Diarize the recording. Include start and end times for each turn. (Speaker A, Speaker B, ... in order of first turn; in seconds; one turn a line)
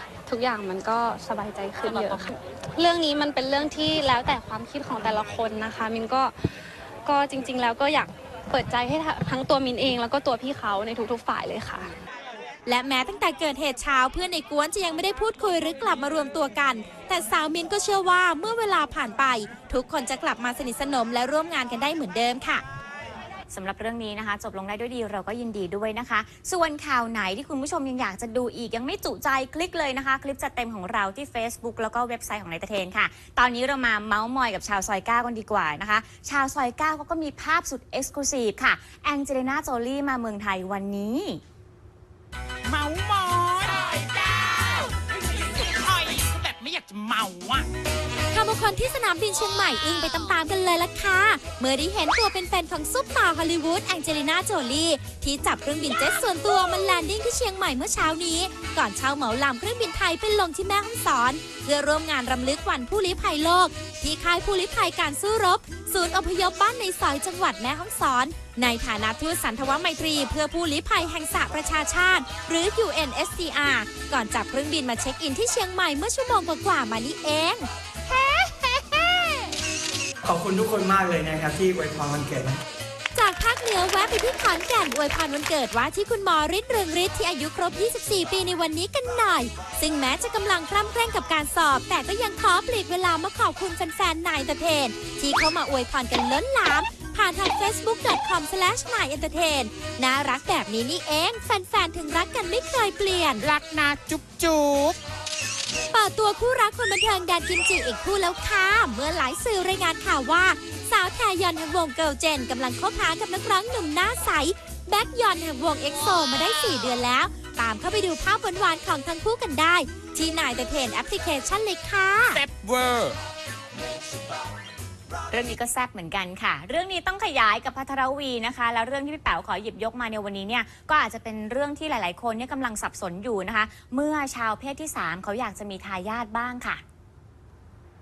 Speaker A: 0.3-6.3
Speaker B: 1.9-2.2
Speaker A: 7.0-11.9
Speaker C: 12.7-22.6
Speaker D: 23.5-41.4
Speaker B: 42.7-44.0
Speaker B: 45.6-47.7
Speaker C: 48.3-79.3
Speaker E: 80.3-82.6
Speaker C: 83.2-103.4
Speaker B: 103.4-105.0
Speaker C: 105.9-122.4
Speaker B: 122.4-123.1
Speaker D: 125.3-136.8